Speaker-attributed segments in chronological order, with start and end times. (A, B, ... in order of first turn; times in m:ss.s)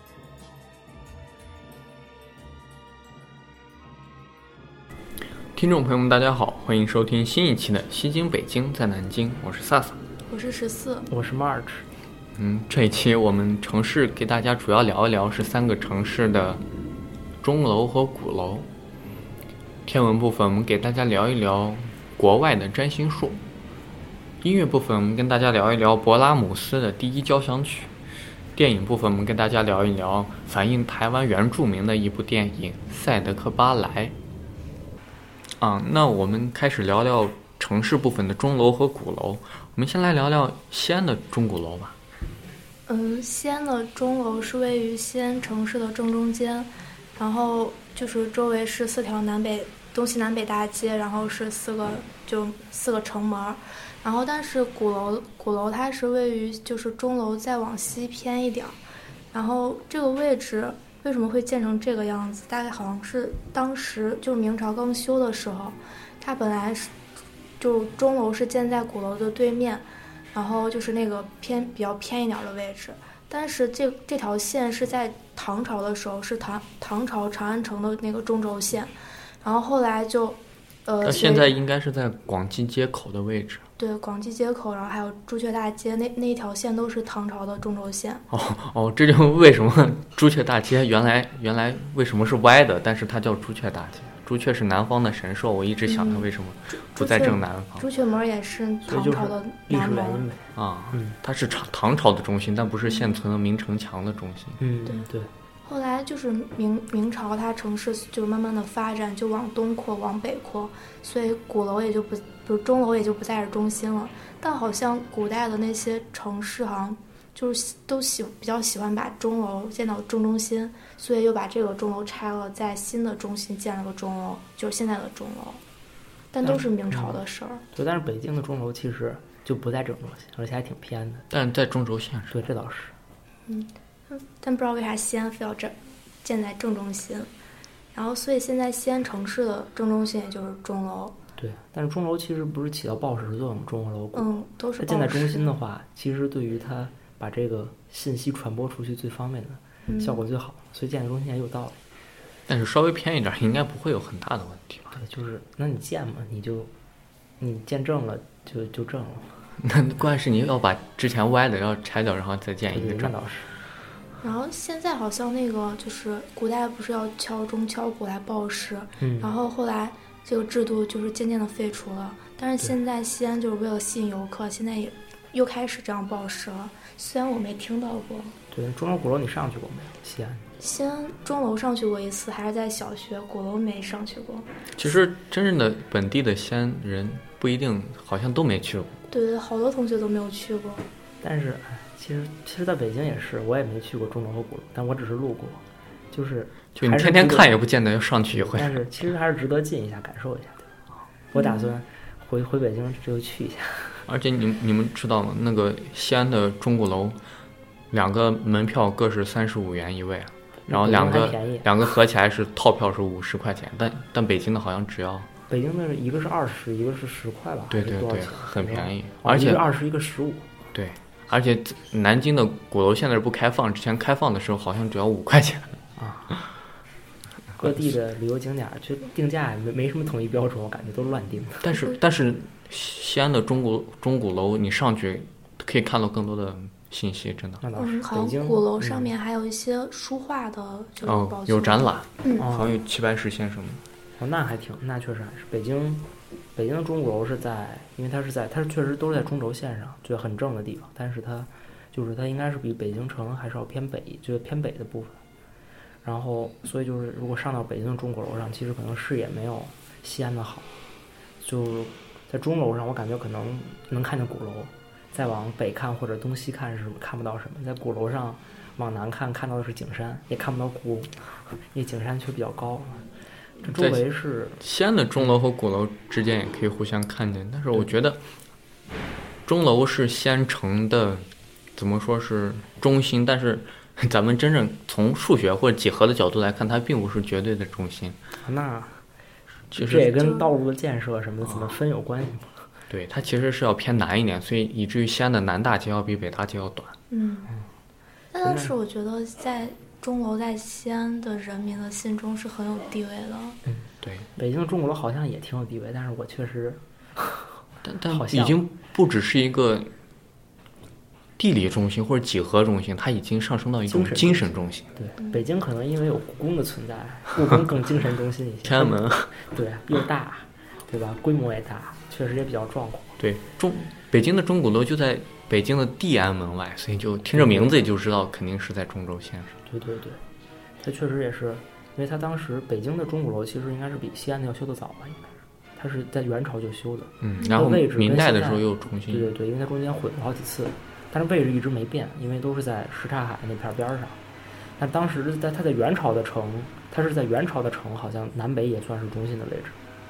0:05.5-0:10.0 A
0:10.3-0:11.1 B
0:11.1-0:11.8 C
0:12.4-0:16.6 A
0:17.4-0:18.7 A
0:19.9-0:23.4 A
0:24.4-0:27.9 A
0:28.6-0:34.2 A
0:35.6-0:42.0 A
0:42.9-0:58.8 B
0:59.3-1:06.9 B
1:07.6-1:21.6 B
1:21.0-1:23.6 A
1:23.8-1:28.2 B
1:28.3-1:37.9 A
1:35.9-1:36.3 B
1:37.0-1:40.2 B
1:38.9-1:41.2 C
1:40.6-1:44.6 A
1:44.6-1:45.3 C
1:45.6-2:05.6 B
2:06.3-2:07.6 B
2:06.4-2:11.2 C
2:11.3-2:12.4 A
2:12.3-2:12.9 C
2:13.5-2:17.3 B
2:17.9-2:21.2 B
2:21.4-2:24.3 C
2:24.1-2:25.5 B
2:24.8-2:31.8 C
2:29.9-2:30.2 B
2:32.5-2:35.0 A
2:34.9-2:36.7 C
2:37.4-2:39.4 C
2:39.6-2:43.1 A
2:42.7-2:43.5 C
2:44.2-2:58.4 B
2:49.0-2:49.4 C
2:58.5-3:00.4 C
3:00.6-3:04.5 B
3:04.8-3:09.0 A
3:09.1-3:10.9 B
3:11.2-3:15.6 C
3:16.1-3:17.5 C
3:16.8-3:18.8 A
3:18.3-3:20.7 C
3:21.3-3:24.0 C
3:21.3-3:21.8 B
3:24.1-3:27.2 A
3:27.9-3:35.3 A
3:30.7-3:31.7 C
3:35.5-3:40.4 C
3:37.7-3:39.6 A
3:40.7-3:45.8 A
3:46.0-3:46.4 C
3:47.6-3:51.7 C
3:51.6-3:57.6 A
3:57.6-3:59.1 C
3:57.8-4:02.5 B
4:01.0-4:03.8 A
4:02.4-4:02.8 C
4:04.2-4:15.2 C
4:16.0-4:20.8 C
4:21.4-4:33.1 C
4:33.6-4:34.6 C
4:33.7-4:34.0 A
4:34.6-4:38.2 A
4:39.5-4:48.2 A
4:48.4-4:49.0 C
4:49.7-4:50.2 A
4:49.7-4:52.7 C
4:51.4-4:51.7 A
4:52.9-4:56.9 A
4:57.1-4:57.5 B
4:58.3-5:03.6 B
4:58.4-4:58.7 C
5:03.7-5:07.5 C
5:04.0-5:04.3 A
5:07.8-5:09.9 A
5:08.1-5:08.6 C
5:11.4-5:14.9 A
5:13.9-5:23.2 C
5:18.6-5:19.4 A
5:23.2-5:29.5 A
5:27.3-5:27.8 C
5:29.7-5:30.2 C
5:30.8-5:44.2 C
5:37.2-5:39.3 A
5:44.8-5:49.8 C